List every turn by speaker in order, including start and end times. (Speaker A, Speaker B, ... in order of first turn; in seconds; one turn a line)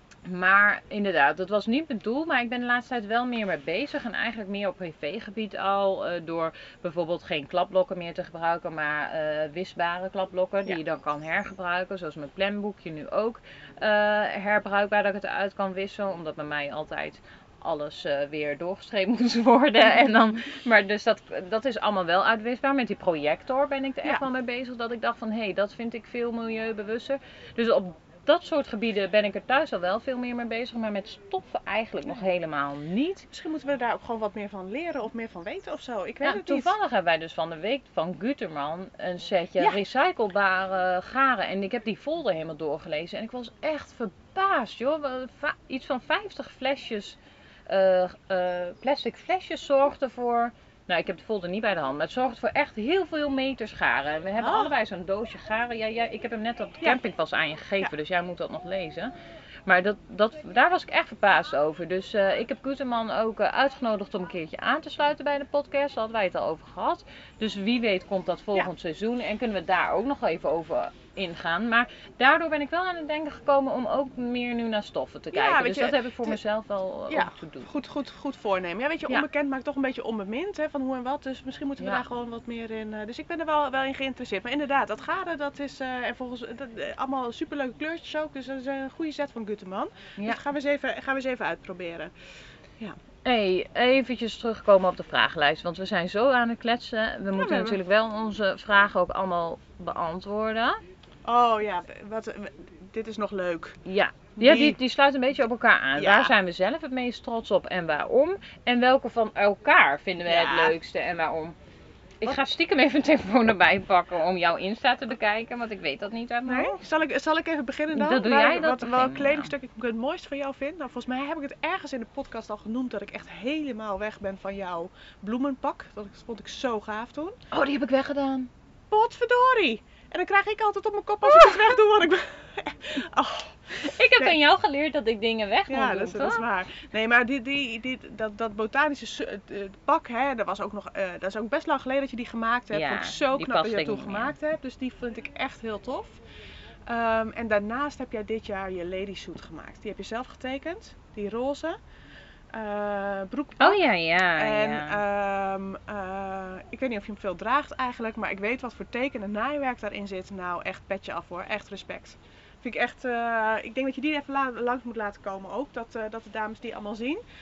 Speaker A: 0.2-33.3
Speaker B: 33.3-36.7
Speaker A: 36.2-47.2
Speaker A: 47.7-59.1
Speaker B: 54.4-54.7
Speaker A: 59.6-77.7
Speaker B: 75.3-76.4
Speaker B: 77.1-92.1
Speaker A: 93.2-100.8
Speaker B: 97.4-97.8
Speaker B: 101.2-103.8
Speaker A: 103.8-111.6
Speaker B: 104.4-104.8
Speaker B: 106.0-106.3
Speaker B: 110.2-110.8
Speaker A: 112.2-116.8
Speaker B: 116.5-127.4
Speaker A: 117.9-119.5
Speaker A: 127.5-128.5
Speaker B: 128.9-134.4
Speaker A: 131.3-131.7
Speaker A: 133.8-136.4
Speaker B: 135.7-146.2
Speaker A: 142.7-144.3
Speaker B: 146.9-151.8
Speaker B: 152.5-153.8
Speaker A: 153.6-155.0
Speaker B: 154.4-167.2